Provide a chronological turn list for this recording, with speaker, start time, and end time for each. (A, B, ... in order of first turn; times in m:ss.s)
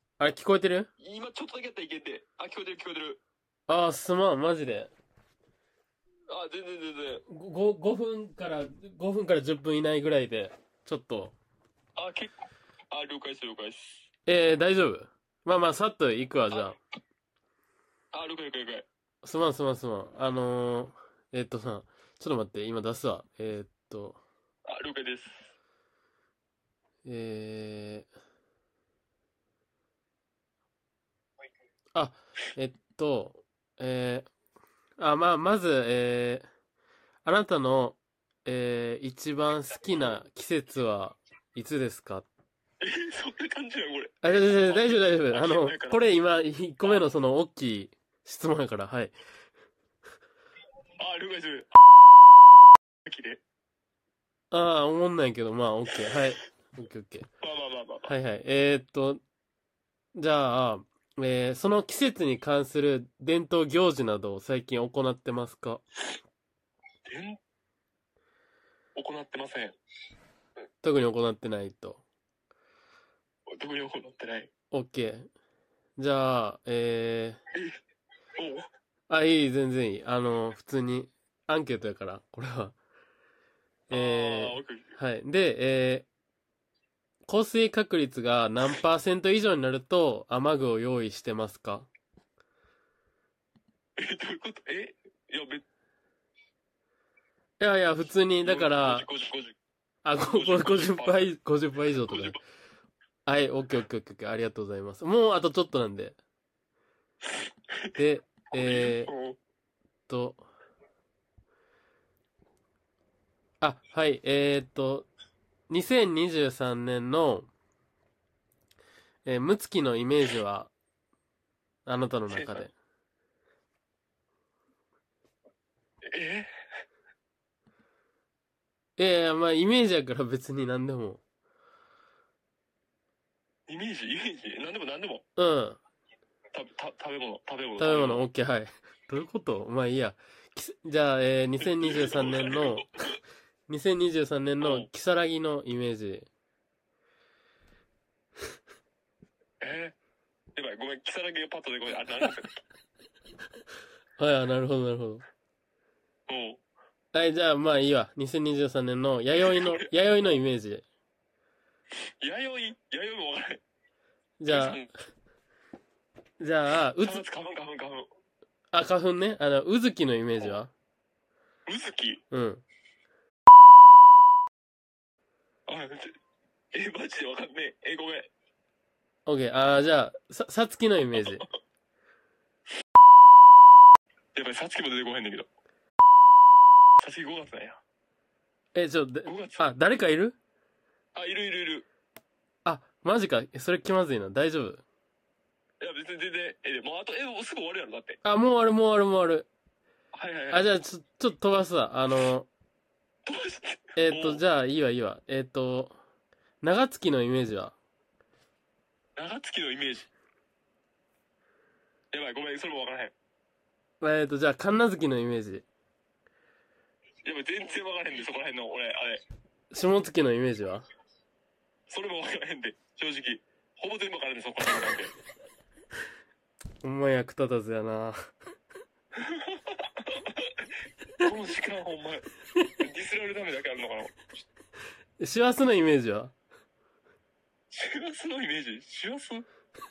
0:00.2-0:00.9 A
0:01.0-0:03.2 B
0:03.7-0:04.9 A
0:06.3-0:07.2 B
0:07.3-0:11.3 A
0:12.0-0:12.4 B
0:12.9-0:14.1 B
0:14.2-0:16.8 A
0:18.1-0:18.8 B
0:19.2-0:24.2 A
0:24.6-0:25.5 B
0:27.0-0:28.1 A
0:31.9-0:34.3 A
0:35.0-0:36.4 A
0:37.2-0:42.3 A
0:42.8-0:46.1 B
0:44.2-0:49.1 A
0:51.0-0:51.7 B
0:53.0-0:53.4 B
0:54.5-0:57.3 A
0:57.4-0:58.1 B
0:58.1-0:59.2 A
1:00.1-1:05.8 A
1:07.0-1:07.4 B
1:08.9-1:09.8 B
1:10.8-1:12.0 A
1:13.5-1:14.5 B
1:14.7-1:15.3 A
1:16.0-1:17.4 A
1:18.4-1:18.7 B
1:19.1-1:22.8 A
1:23.9-1:25.0 B
1:23.9-1:26.1 A
1:27.3-1:31.9 A
1:34.0-1:35.6 B
1:37.6-1:39.1 A
1:38.4-1:39.6 B
1:40.0-1:42.4 A
1:40.2-1:41.3 B
1:41.9-1:42.4 B
1:43.2-1:46.2 A
1:47.9-1:49.1 A
1:48.5-1:49.4 B
1:50.1-1:50.4 A
1:53.6-1:55.1 A
1:55.7-1:57.5 A
1:59.2-2:00.7 A
2:01.8-2:02.7 A
2:02.3-2:02.6 B
2:06.1-2:06.5 B
2:09.0-2:11.2 A
2:13.7-2:15.2 B
2:15.4-2:15.8 A
2:16.5-2:18.2 B
2:17.8-2:22.9 A
2:21.6-2:23.1 B
2:23.7-2:26.3 A
2:24.6-2:24.9 B
2:29.6-2:29.9 B
2:30.5-2:32.6 B
2:34.2-2:35.2 A
2:36.3-2:36.6 B
2:37.1-2:40.8 A
2:39.3-2:39.9 B
2:42.2-2:43.6 B
2:44.4-2:44.8 A
2:44.5-2:44.9 B
2:46.4-2:47.2 A
2:47.0-2:48.1 B
2:48.7-2:50.7 A
2:51.6-2:52.2 B
2:52.3-2:52.6 A
2:55.7-2:56.1 B
2:56.7-2:58.3 B
2:59.2-3:01.5 A
3:04.3-3:05.5 B
3:07.0-3:07.8 B
3:08.7-3:10.4 A
3:09.2-3:09.7 B
3:11.1-3:11.8 B
3:12.6-3:14.8 A
3:15.8-3:18.2 B
3:18.2-3:19.5 A
3:20.1-3:20.7 B
3:20.5-3:22.5 A
3:23.2-3:24.4 B
3:24.0-3:26.0 A
3:26.6-3:27.8 A
3:29.2-3:30.1 B
3:32.1-3:33.1 B
3:34.0-3:35.6 A
3:37.2-3:39.2 B
3:39.7-3:40.9 A
3:41.9-3:45.1 B
3:46.8-3:48.2 A
3:49.2-3:50.7 B
3:51.2-3:54.3 B
3:55.2-3:56.3 A
3:57.7-3:59.5 B